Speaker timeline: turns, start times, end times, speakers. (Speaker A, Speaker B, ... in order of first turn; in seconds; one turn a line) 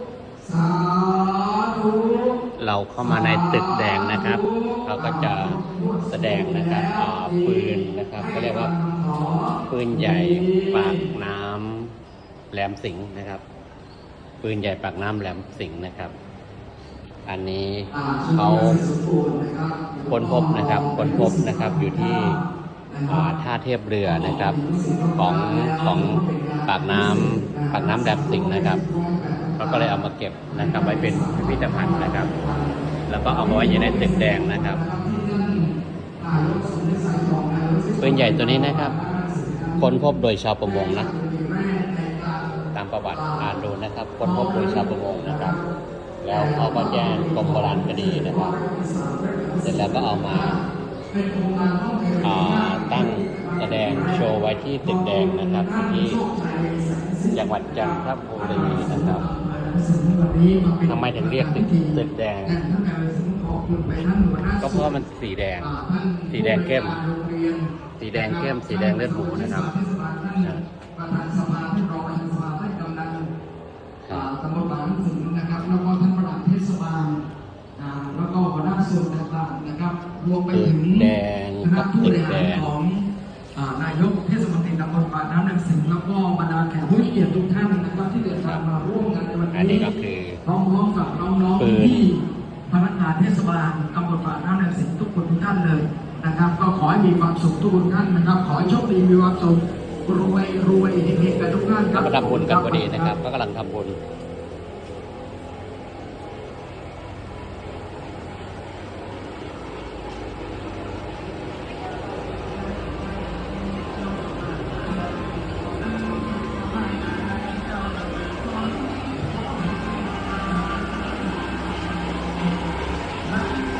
Speaker A: 0.4-2.4
Speaker B: 2.6-8.7
Speaker A: 3.0-11.0
Speaker B: 9.7-11.9
Speaker B: 12.5-13.4
Speaker B: 14.4-16.1
Speaker B: 17.2-18.8
Speaker A: 17.9-23.2
Speaker B: 20.1-22.4
Speaker B: 23.1-24.6
Speaker A: 24.0-30.0
Speaker B: 25.2-28.8
Speaker B: 29.6-32.3
Speaker A: 30.5-40.0
Speaker B: 33.1-34.8
Speaker B: 38.0-38.9
Speaker B: 39.8-41.1
Speaker A: 40.6-42.5
Speaker B: 42.7-45.5
Speaker A: 43.1-43.5
Speaker A: 44.2-45.6
Speaker B: 46.2-48.5
Speaker A: 46.3-54.2
Speaker B: 49.6-50.6
Speaker B: 52.2-56.2
Speaker A: 54.8-64.9
Speaker B: 57.3-59.2
Speaker B: 60.8-62.6
Speaker B: 64.6-65.7
Speaker A: 65.6-73.2
Speaker B: 66.3-67.0
Speaker B: 68.0-69.8
Speaker B: 74.0-74.3
Speaker A: 74.1-77.2
Speaker A: 77.8-81.1
Speaker B: 80.5-82.7
Speaker A: 81.6-89.9
Speaker B: 89.5-90.4
Speaker A: 90.4-103.1
Speaker B: 91.6-92.0
Speaker B: 101.9-104.0
Speaker A: 116.0-117.7
Speaker A: 118.5-119.3
Speaker A: 120.8-121.2